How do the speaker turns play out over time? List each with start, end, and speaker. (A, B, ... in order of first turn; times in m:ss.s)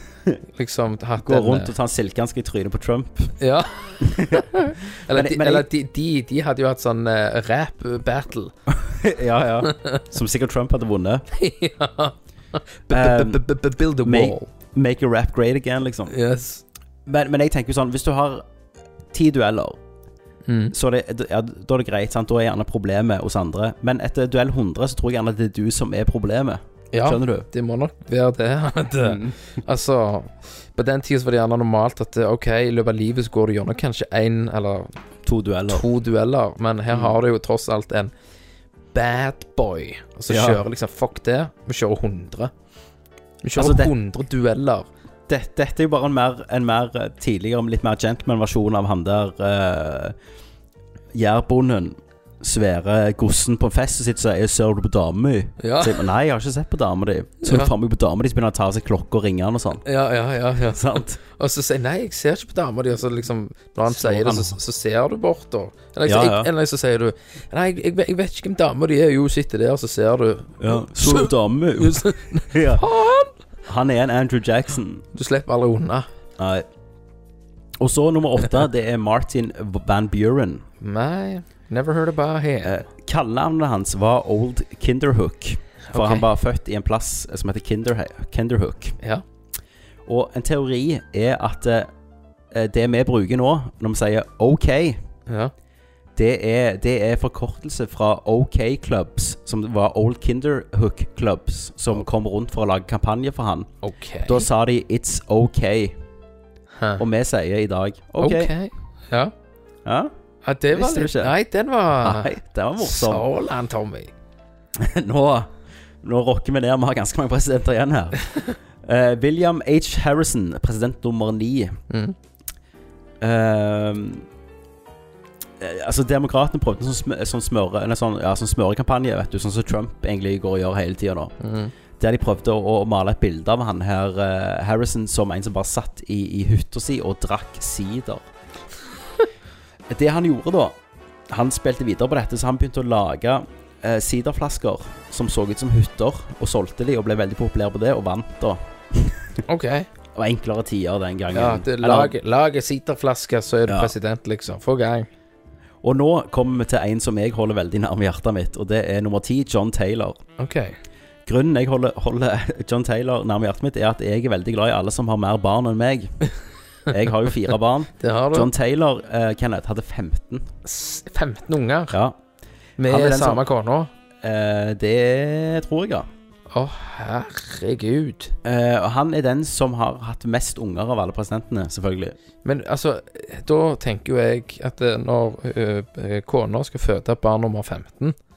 0:00.5-0:01.7 A
0:01.2-0:03.3 B
0:03.4-0:08.5 A
0:04.0-0:05.7 B
0:08.7-0:11.2 B
0:11.3-0:14.5 A
0:12.9-0:13.4 B
0:14.0-0:16.1 B
0:16.1-0:16.6 A
0:17.0-0:18.4 B
0:19.1-0:19.8 B
0:20.4-0:20.7 A
0:20.7-0:27.5 B
0:26.9-0:35.0 A
0:29.0-0:29.4 B
0:35.2-0:35.8 B
0:35.7-0:38.1 A
0:38.9-0:42.5 A
0:40.3-0:40.6 B
0:43.4-0:44.9 A
0:43.6-0:43.9 B
0:45.3-0:50.2 B
0:51.1-0:59.8 B
0:55.6-0:56.1 A
0:57.4-0:57.7 A
0:59.8-1:13.3 A
1:00.6-1:01.2 B
1:03.9-1:04.6 B
1:06.0-1:06.5 B
1:10.6-1:12.8 B
1:13.6-1:15.0 B
1:15.1-1:16.1 A
1:16.4-1:16.6 B
1:17.8-1:20.6 B
1:20.8-1:22.8 A
1:22.6-1:29.0 B
1:25.9-1:26.2 A
1:30.0-1:31.9 B
1:32.5-1:35.0 B
1:35.3-1:35.5 A
1:36.2-1:43.7 B
1:43.8-1:44.5 A
1:44.2-1:46.0 B
1:46.8-1:47.0 A
1:47.0-1:48.5 B
1:48.2-1:49.3 A
1:49.8-1:50.1 B
1:50.4-1:54.1 A
1:50.7-1:51.3 B
1:52.0-1:53.3 B
1:54.8-2:01.8 B
2:01.9-2:02.2 A
2:03.2-2:04.3 B
2:05.6-2:11.3 B
2:11.4-2:11.7 A
2:12.0-2:18.2 B
2:19.9-2:20.8 B
2:21.3-2:29.4 B
2:29.5-2:29.9 A
2:30.1-2:32.1 B
2:31.3-2:35.1 A
2:33.7-2:33.9 B
2:35.8-2:40.2 B
2:40.4-2:40.8 A
2:41.2-2:46.2 B
2:46.8-2:50.5 B
2:48.0-2:48.5 A
2:50.6-2:51.9 A
2:51.9-2:52.2 B
2:52.8-2:53.9 A
2:52.8-2:53.4 B
2:54.2-2:56.1 B
2:56.5-2:58.4 A
2:58.4-3:02.2 B
3:02.4-3:08.2 A